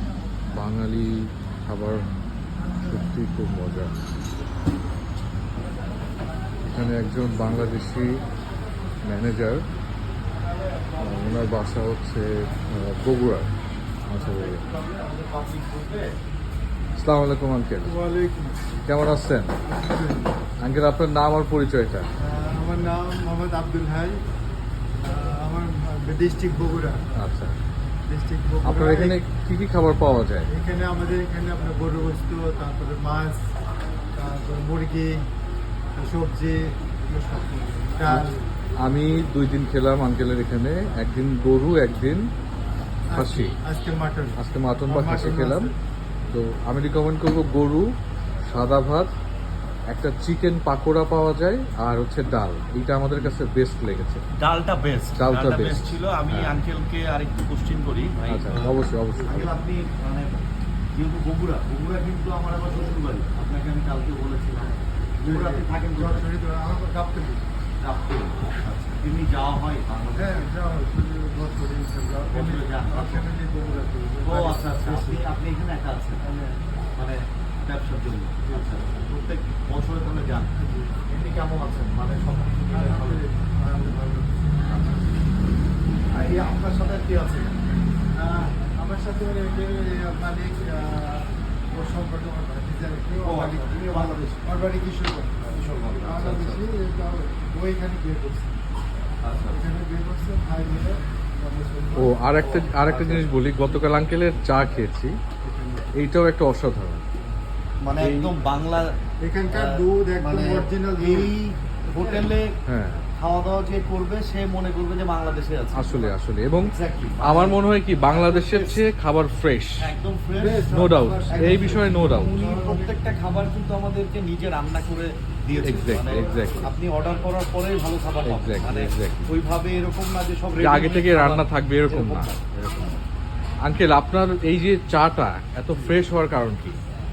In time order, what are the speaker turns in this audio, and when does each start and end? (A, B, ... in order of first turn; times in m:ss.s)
0:00.5-0:02.1 A
0:02.8-0:04.0 A
0:06.7-0:08.2 A
0:09.0-0:09.7 A
0:10.7-0:11.5 B
0:11.0-0:13.5 A
0:14.0-0:14.6 A
0:14.2-0:16.2 B
0:17.0-0:18.0 A
0:17.8-0:18.6 C
0:18.9-0:19.6 A
0:19.6-0:20.4 C
0:20.6-0:22.1 A
0:22.2-0:24.2 C
0:25.0-0:27.0 C
0:27.2-0:27.6 A
0:28.1-0:29.2 C
0:28.6-0:30.5 A
0:30.5-0:33.5 C
0:34.1-0:35.3 C
0:36.0-0:38.4 C
0:38.0-0:38.3 A
0:38.8-0:42.3 A
0:43.1-0:45.8 C
0:43.1-0:43.6 A
0:44.4-0:45.7 A
0:46.3-0:47.9 A
0:48.5-0:49.1 A
0:49.9-0:54.2 A
0:54.4-0:58.7 B
0:55.2-0:56.6 A
0:58.3-0:59.6 A
0:59.2-0:59.5 C
0:59.3-1:00.4 B
1:01.0-1:06.3 B
1:05.2-1:07.4 C
1:07.8-1:10.4 B
1:10.2-1:15.3 C
1:12.3-1:13.2 B
1:14.2-1:16.2 B
1:16.2-1:16.6 C
1:17.0-1:20.5 B
1:18.5-1:19.0 C
1:20.6-1:21.0 C
1:21.1-1:23.2 B
1:22.7-1:24.6 C
1:24.7-1:25.0 B
1:26.1-1:27.6 B
1:28.1-1:38.6 C
1:33.1-1:34.5 B
1:35.5-1:36.5 B
1:36.2-1:36.6 A
1:39.2-1:39.6 B
1:39.5-1:42.4 C
1:42.0-1:45.2 A
1:42.3-1:43.3 B
1:45.4-1:45.9 C
1:45.9-1:47.0 A
1:47.8-1:49.0 B
1:48.0-1:48.4 A
1:49.2-1:51.4 C
1:49.5-1:52.6 B
1:51.9-1:52.3 C
1:52.6-1:53.0 A
1:53.2-1:58.8 B
1:55.7-1:59.9 A
1:59.8-2:00.8 B
2:00.4-2:03.0 C
2:00.7-2:02.3 A
2:01.3-2:12.5 B
2:05.6-2:06.8 A
2:08.2-2:09.3 A
2:10.6-2:13.0 A
2:13.6-2:16.8 A